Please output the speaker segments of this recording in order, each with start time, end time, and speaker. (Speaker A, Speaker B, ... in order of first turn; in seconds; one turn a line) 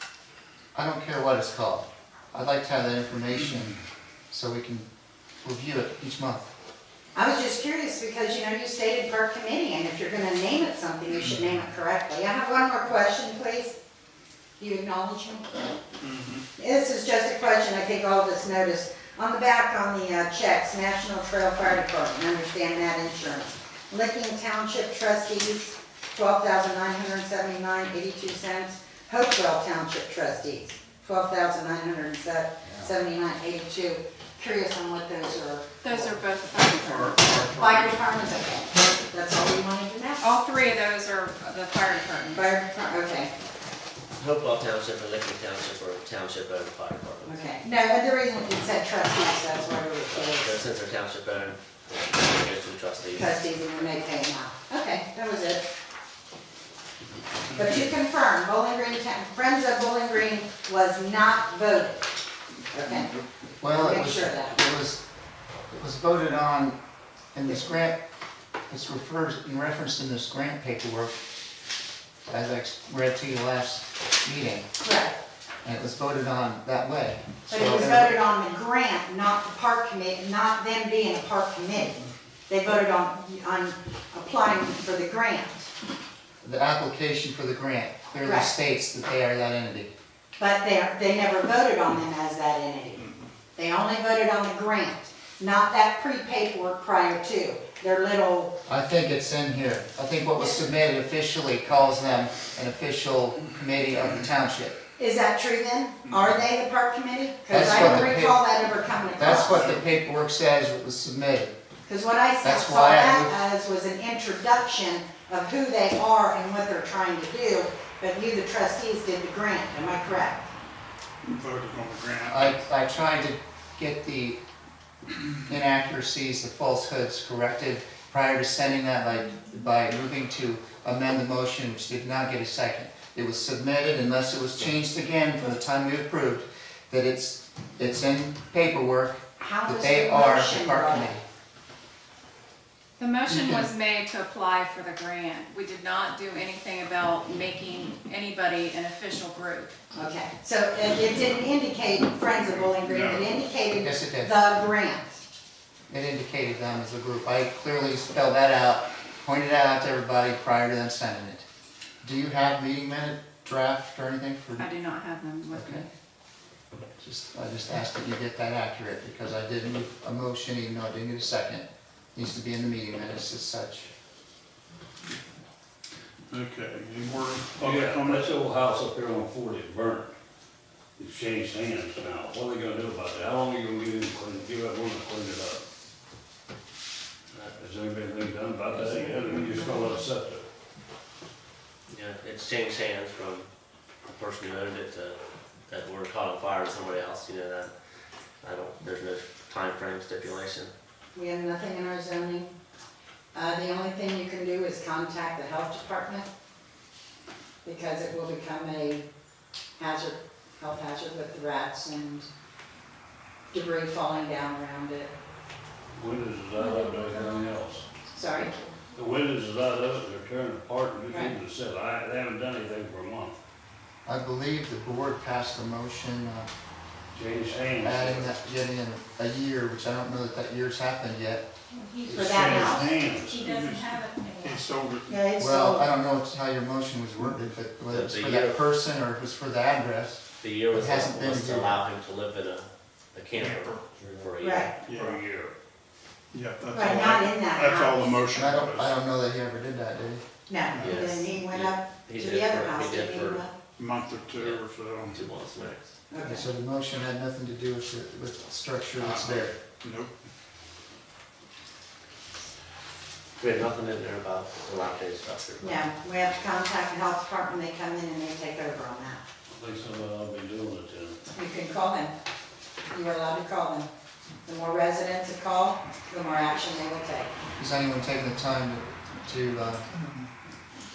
Speaker A: 0.8-3.8
Speaker A: 4.3-4.9
Speaker A: 5.4-6.5
Speaker B: 7.2-13.8
Speaker B: 14.6-15.7
Speaker C: 16.1-16.4
Speaker B: 16.6-36.2
Speaker D: 35.8-37.7
Speaker A: 36.9-37.4
Speaker B: 37.5-40.4
Speaker D: 40.2-42.5
Speaker B: 42.3-43.3
Speaker E: 44.2-47.4
Speaker B: 47.2-50.6
Speaker E: 50.1-53.3
Speaker B: 53.1-55.7
Speaker B: 57.5-62.1
Speaker B: 62.7-63.1
Speaker A: 63.6-65.0
Speaker B: 63.7-64.6
Speaker A: 65.7-66.8
Speaker A: 67.3-68.0
Speaker A: 68.7-71.2
Speaker A: 72.3-74.7
Speaker B: 74.8-75.2
Speaker A: 75.6-78.2
Speaker B: 77.5-85.7
Speaker A: 86.4-89.9
Speaker B: 88.2-88.5
Speaker B: 90.4-98.5
Speaker A: 98.7-104.8
Speaker B: 105.0-109.8
Speaker A: 107.5-108.4
Speaker A: 109.2-111.5
Speaker B: 111.9-120.5
Speaker A: 112.4-113.3
Speaker C: 121.2-122.6
Speaker A: 122.3-124.4
Speaker A: 125.5-141.2
Speaker B: 139.4-141.1
Speaker D: 143.0-149.8
Speaker A: 143.3-143.7
Speaker B: 149.9-155.2
Speaker C: 152.5-153.4
Speaker A: 153.8-154.3
Speaker A: 155.9-161.4
Speaker A: 162.0-164.7
Speaker D: 164.6-165.9
Speaker A: 165.5-165.9
Speaker A: 167.0-173.9
Speaker C: 176.3-178.3
Speaker F: 177.6-180.1
Speaker F: 181.0-185.6
Speaker F: 187.3-190.4
Speaker E: 191.9-193.5
Speaker E: 194.1-197.7
Speaker E: 198.4-200.7
Speaker B: 201.2-202.5
Speaker B: 203.3-206.3
Speaker B: 207.7-209.1
Speaker B: 209.8-212.3
Speaker B: 213.5-215.1
Speaker F: 216.0-217.9
Speaker D: 216.6-217.5
Speaker B: 218.1-218.5
Speaker F: 218.9-223.4
Speaker B: 221.1-221.4
Speaker A: 224.1-226.5
Speaker F: 227.1-228.3
Speaker A: 227.8-231.4
Speaker D: 231.7-234.7
Speaker F: 232.1-233.5
Speaker B: 232.1-232.9
Speaker C: 233.4-235.2
Speaker B: 235.1-235.9
Speaker A: 235.4-241.8
Speaker E: 237.9-238.7
Speaker E: 240.4-244.8
Speaker C: 243.4-243.8
Speaker B: 244.4-244.8
Speaker C: 244.9-245.2
Speaker F: 244.9-245.5
Speaker C: 246.3-249.0
Speaker B: 246.7-248.1
Speaker A: 248.3-250.3
Speaker B: 250.5-253.6
Speaker E: 250.8-253.4
Speaker C: 253.8-255.2
Speaker E: 254.4-255.9
Speaker B: 256.1-256.4
Speaker A: 256.2-259.5
Speaker C: 259.0-260.1
Speaker E: 263.4-265.9
Speaker B: 265.6-269.2
Speaker F: 269.6-271.2
Speaker B: 271.3-272.1
Speaker B: 272.9-273.9
Speaker B: 274.4-277.3
Speaker A: 277.6-279.9